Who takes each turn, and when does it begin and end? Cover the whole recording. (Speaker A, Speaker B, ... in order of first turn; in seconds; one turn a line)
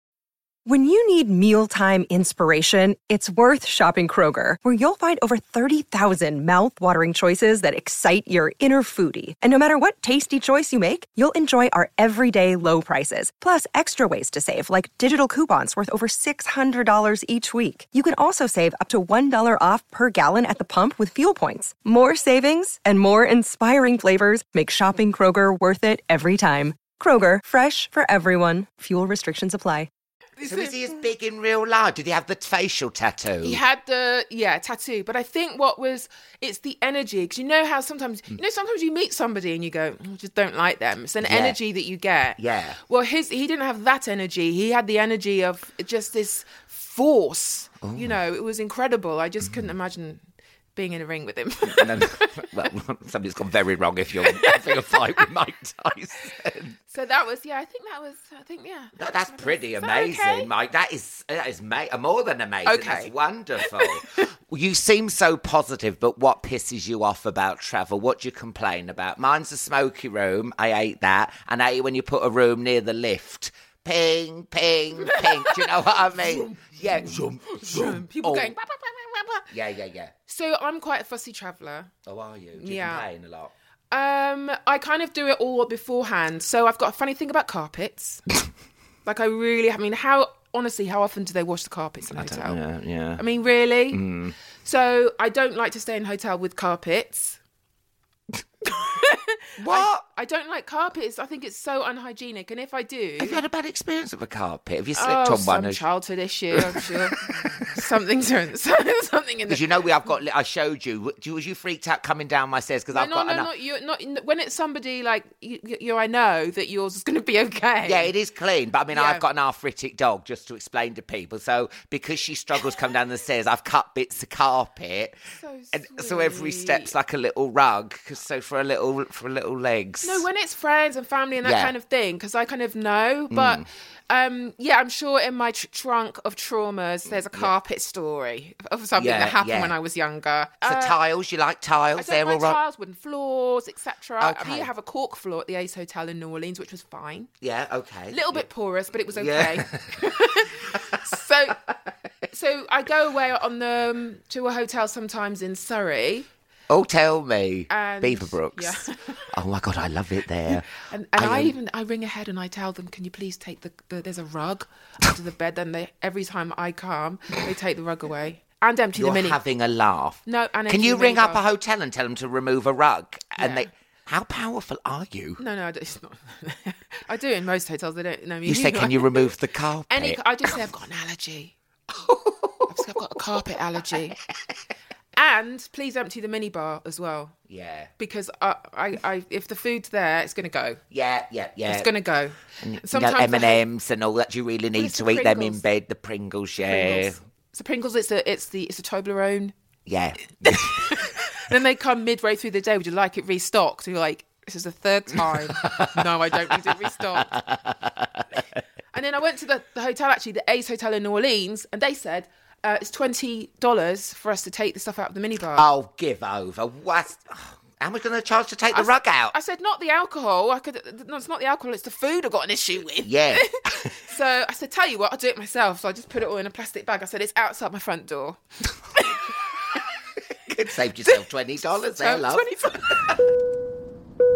Speaker A: 0.7-29.9
Speaker B: 30.4-30.9
Speaker C: 30.4-33.6
Speaker B: 33.4-50.2
Speaker C: 41.2-41.6
Speaker C: 42.4-42.8
Speaker C: 47.8-48.2
Speaker B: 50.8-52.5
Speaker C: 51.6-56.8
Speaker B: 54.2-55.2
Speaker B: 56.9-60.5
Speaker C: 59.0-78.5
Speaker B: 62.6-64.0
Speaker B: 75.0-79.5
Speaker C: 79.5-80.1
Speaker B: 80.3-81.9
Speaker C: 82.0-83.5
Speaker B: 82.5-83.0
Speaker B: 83.9-88.2
Speaker B: 89.0-92.6
Speaker C: 92.1-93.2
Speaker B: 93.2-94.0
Speaker C: 93.9-94.3
Speaker B: 94.6-97.4
Speaker B: 98.7-103.4
Speaker C: 99.6-100.0
Speaker C: 103.2-105.8
Speaker B: 105.0-109.6
Speaker C: 106.5-107.7
Speaker C: 109.5-113.5
Speaker B: 112.9-118.1
Speaker C: 117.8-125.2
Speaker B: 118.9-119.2
Speaker B: 125.3-126.9
Speaker C: 125.7-130.2
Speaker B: 130.0-140.9
Speaker C: 131.4-131.7
Speaker C: 133.3-133.6
Speaker C: 139.0-139.7
Speaker C: 140.6-142.6
Speaker B: 142.0-147.3
Speaker C: 144.2-144.7
Speaker C: 147.4-148.4
Speaker B: 148.1-151.6
Speaker C: 149.1-150.0
Speaker B: 152.3-156.3
Speaker C: 156.7-161.5
Speaker B: 157.7-159.2
Speaker B: 160.9-169.4
Speaker C: 169.0-175.4
Speaker B: 170.2-171.4
Speaker B: 173.4-173.7
Speaker B: 175.4-179.3
Speaker C: 178.4-180.2
Speaker B: 179.9-181.5
Speaker C: 181.9-182.7
Speaker B: 182.7-184.2
Speaker B: 185.2-187.3
Speaker C: 187.5-187.9
Speaker B: 188.0-190.8
Speaker C: 190.9-191.9
Speaker B: 191.7-193.6
Speaker C: 192.6-197.2
Speaker B: 194.8-195.6
Speaker B: 196.6-199.5
Speaker C: 199.9-201.1
Speaker B: 200.4-207.3
Speaker C: 205.6-206.6
Speaker C: 207.2-208.4
Speaker B: 208.9-215.7
Speaker C: 215.6-219.3
Speaker B: 218.7-228.4
Speaker C: 223.0-223.9
Speaker B: 228.9-229.8
Speaker C: 230.5-233.1
Speaker B: 231.9-233.2